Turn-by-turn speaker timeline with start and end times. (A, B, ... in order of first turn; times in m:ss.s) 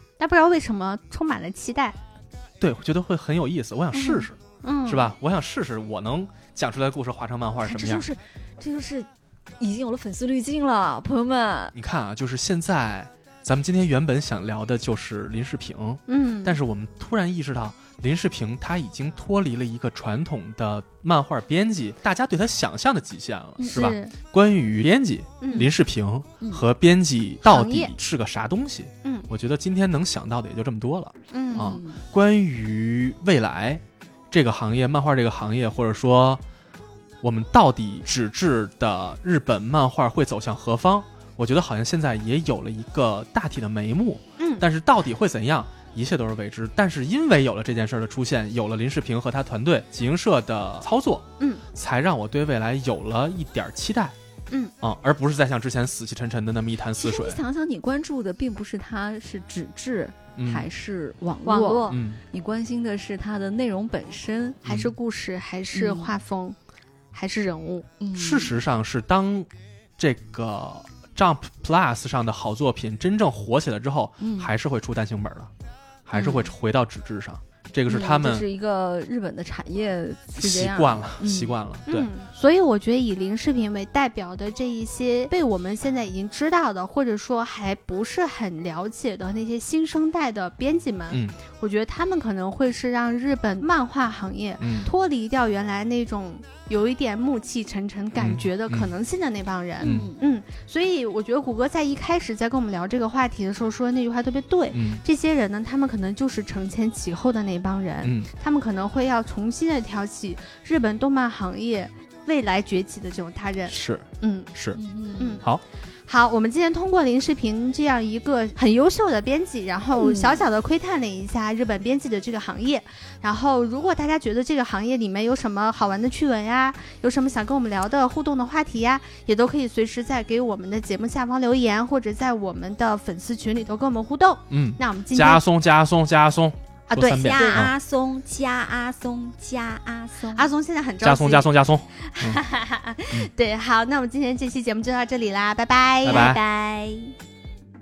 0:00.2-0:02.0 A
0:02.6-0:08.0 B
0:03.9-0:05.1 A
0:07.6-0:11.7 C
0:11.7-0:36.4 B
0:16.1-0:16.6 A
0:23.6-0:23.9 C
0:23.6-0:24.1 A
0:25.4-0:25.7 A
0:27.5-0:27.9 A
0:31.3-0:31.8 A
0:31.5-0:32.0 C
0:37.2-0:54.2 B
0:44.4-0:44.6 A
0:51.4-0:51.6 A
0:54.8-0:57.4 B
0:57.0-1:04.6 C
1:00.4-1:00.7 B
1:01.4-1:02.0 A
1:01.9-1:02.2 B
1:04.6-1:04.9 B
1:04.6-1:06.6 A
1:05.7-1:06.2 C
1:07.1-1:07.9 A
1:08.0-1:08.5 C
1:08.1-1:15.5 B
1:14.2-1:14.5 C
1:16.0-1:18.5 B
1:16.2-1:16.5 C
1:17.9-1:21.5 C
1:20.4-1:22.1 B
1:21.9-1:54.5 A
1:34.6-1:34.9 B
1:38.2-1:38.9 B
1:39.8-1:40.2 C
1:44.7-1:45.0 B
1:48.0-1:48.3 B
1:53.7-1:54.8 B
1:54.7-1:55.4 C
1:55.2-1:55.4 A
1:56.1-2:15.4 A
2:00.0-2:00.4 C
2:14.5-2:17.7 B
2:16.9-2:20.5 C
2:17.2-2:17.7 A
2:20.3-2:21.5 A
2:21.0-2:22.4 B
2:22.0-2:26.4 A
2:26.0-2:26.4 B
2:26.0-2:27.1 C